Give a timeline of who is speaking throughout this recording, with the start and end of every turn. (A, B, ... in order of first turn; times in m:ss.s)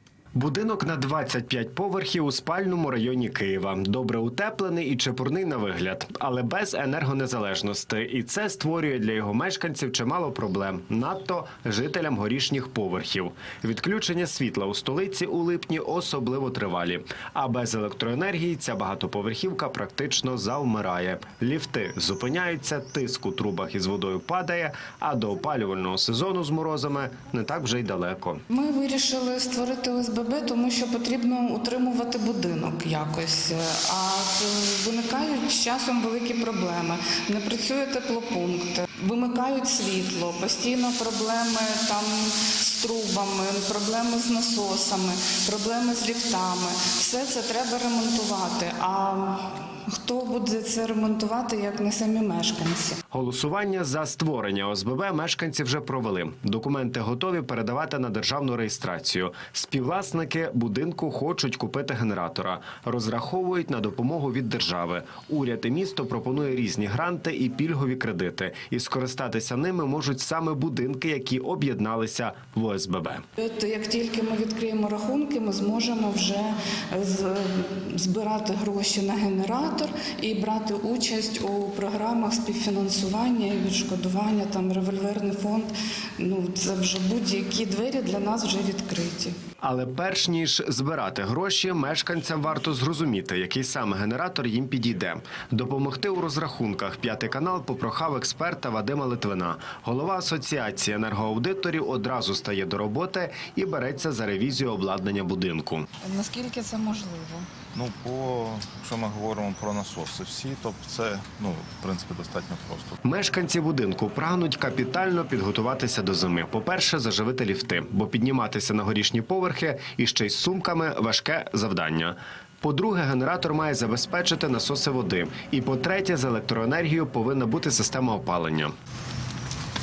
0:00.3-0:28.4 A
0:28.5-0:53.0 B
0:53.1-1:13.2 A
1:13.4-1:29.3 B
1:29.6-1:45.8 A
1:46.0-1:47.5 B
1:47.7-1:53.0 C
1:53.0-2:08.7 A